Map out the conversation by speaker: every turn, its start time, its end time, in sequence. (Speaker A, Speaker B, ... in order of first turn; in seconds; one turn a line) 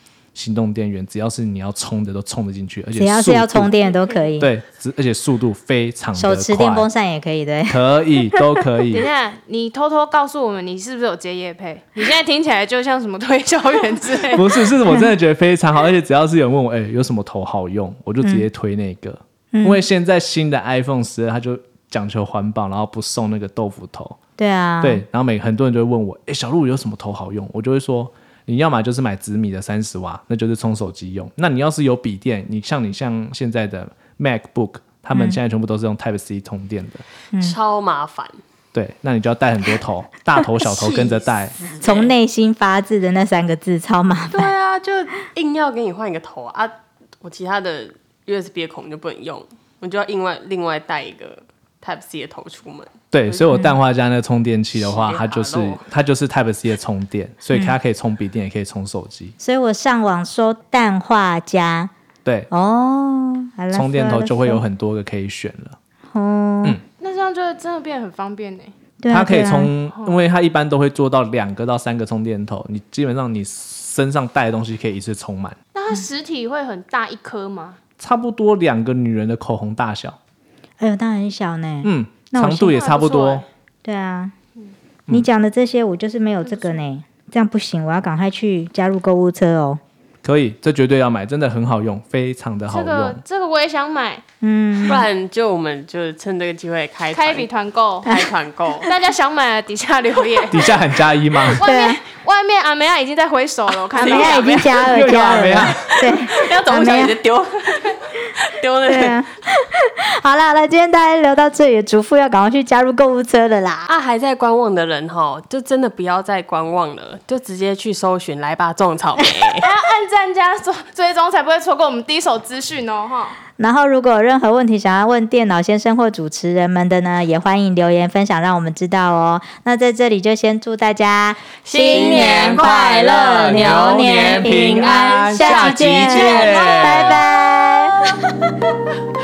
Speaker A: 0.3-3.7
Speaker B: 3.0-4.5
Speaker A: 4.4-6.9
Speaker B: 6.2-7.8
Speaker A: 7.7-9.1
Speaker C: 8.9-14.6
Speaker A: 14.3-24.2
Speaker B: 19.5-19.9
Speaker B: 24.4-25.0
Speaker A: 24.8-37.0
Speaker D: 37.4-38.4
Speaker A: 38.7-41.6
Speaker D: 40.6-42.1
Speaker B: 41.8-44.5
Speaker D: 44.3-53.6
Speaker A: 53.1-59.4
Speaker D: 54.8-55.9
Speaker B: 59.4-61.9
Speaker A: 62.2-62.5
Speaker B: 62.5-64.6
Speaker A: 63.7-65.8
Speaker B: 66.1-66.8
Speaker C: 67.0-68.7
Speaker B: 69.0-69.7
Speaker A: 69.1-75.6
Speaker C: 69.9-70.2
Speaker C: 75.7-77.8
Speaker A: 78.0-80.2
Speaker B: 80.8-82.8
Speaker A: 81.8-83.5
Speaker C: 82.7-83.5
Speaker B: 83.8-84.3
Speaker B: 85.1-89.8
Speaker C: 86.5-86.8
Speaker A: 90.2-93.2
Speaker C: 92.7-94.2
Speaker B: 94.4-95.1
Speaker D: 94.8-97.5
Speaker C: 97.1-98.1
Speaker D: 98.0-98.9
Speaker C: 98.8-100.8
Speaker A: 100.5-101.6
Speaker C: 101.6-104.9
Speaker B: 101.6-102.0
Speaker D: 103.7-104.5
Speaker B: 104.0-107.2
Speaker A: 104.9-106.2
Speaker D: 106.2-109.2
Speaker B: 108.8-113.9
Speaker D: 113.9-119.7
Speaker C: 119.6-123.4
Speaker B: 123.6-138.1
Speaker D: 131.6-137.4
Speaker A: 132.1-132.6
Speaker A: 133.3-137.2